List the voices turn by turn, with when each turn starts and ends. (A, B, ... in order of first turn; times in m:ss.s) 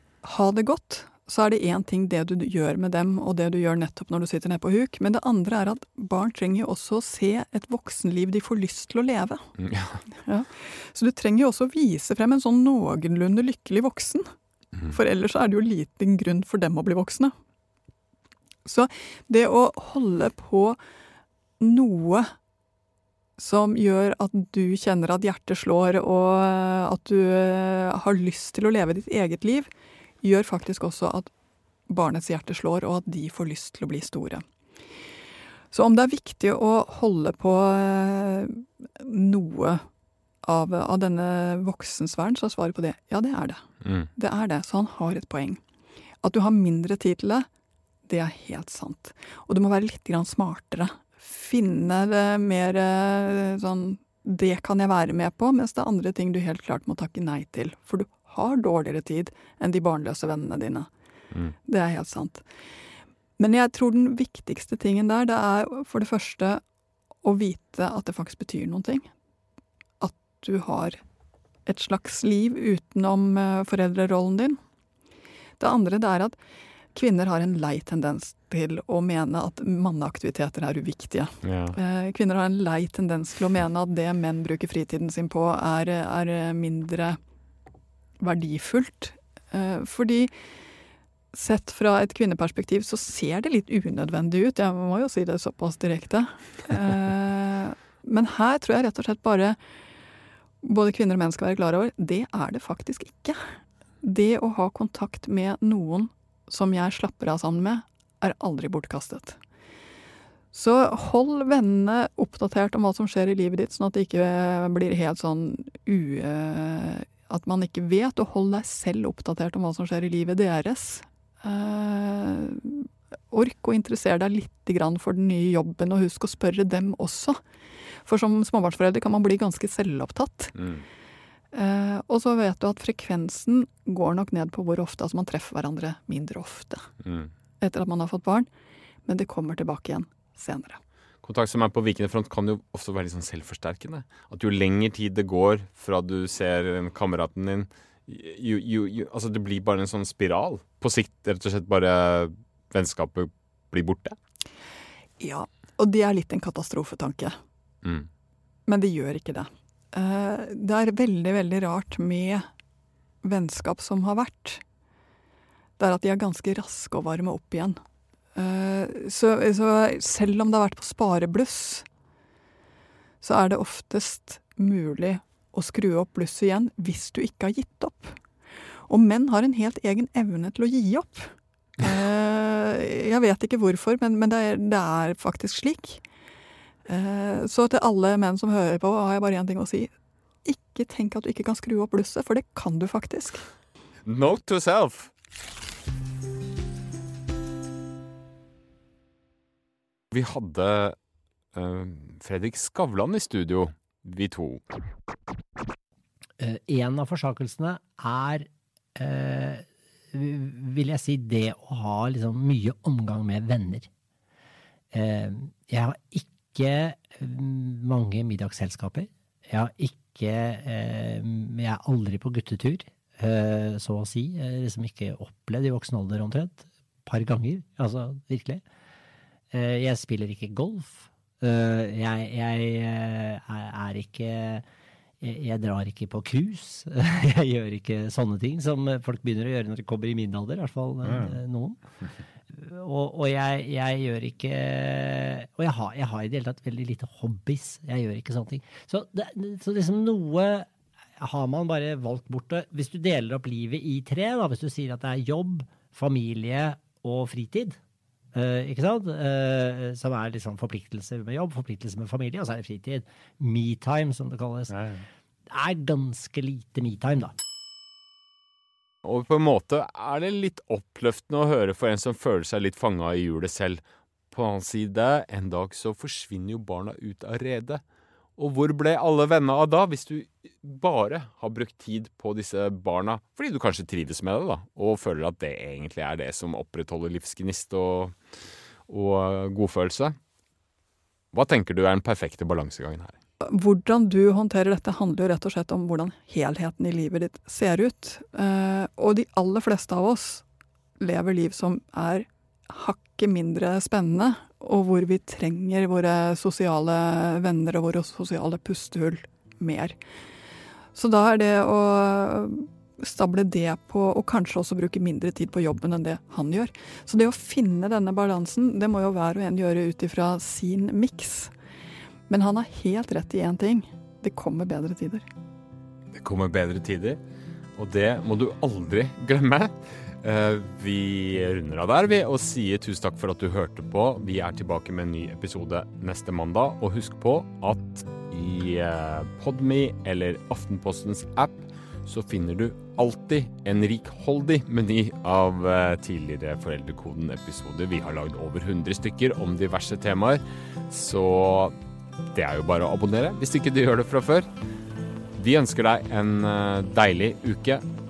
0:00.2-0:09.5 A
0:09.6-0:10.0 B
0:10.2-0:14.3 A
0:14.9-0:17.3 A
0:18.6-0:20.8 A
0:21.6-0:22.3 A
0:23.4-0:29.7 A
0:30.2-0:31.3 A
0:31.9-0:34.4 A
0:35.7-0:39.8 A
0:40.4-0:45.6 A
0:43.8-0:44.1 B
0:46.2-0:47.5 A
0:48.0-1:00.9 A
1:01.6-1:02.4 A
1:03.4-1:06.6 A
1:07.2-1:09.1 A
1:10.0-1:11.0 A
1:11.6-1:14.6 A
1:15.6-1:16.4 A
1:16.9-1:27.2 A
1:21.4-1:21.8 B
1:28.2-1:30.3 A
1:31.3-1:39.6 A
1:40.6-1:43.4 A
1:44.0-1:49.4 A
1:50.5-2:07.4 A
2:08.0-2:10.5 A
2:10.5-2:10.8 B
2:11.5-2:16.9 A
2:17.0-2:17.3 B
2:17.6-2:18.5 A
2:19.0-2:20.8 A
2:21.2-2:34.2 B
2:35.2-2:37.3 A
2:37.8-2:38.1 B
2:38.7-2:42.5 A
2:43.2-2:44.6 A
2:45.8-2:47.8 A
2:48.3-2:51.8 A
2:53.2-2:58.2 A
2:58.9-3:06.0 A
3:06.8-3:09.9 A
3:10.4-3:13.4 A
3:14.0-3:15.1 B
3:20.1-3:21.0 B
3:21.5-3:24.6 B
3:26.4-3:33.9 C
3:34.9-3:48.6 C
3:49.5-3:54.6 C
3:55.2-4:01.8 C
4:02.5-4:17.8 C
4:18.3-4:27.3 C
4:29.0-4:37.8 B
4:38.4-4:48.2 B
4:48.9-4:50.2 B
4:51.3-4:53.2 B
4:53.4-5:00.4 A
5:01.0-5:10.0 A
5:10.9-5:21.5 A
5:22.3-5:25.2 A
5:26.1-5:27.2 B
5:27.8-5:51.7 B
5:52.3-5:54.5 B
5:55.3-5:57.8 B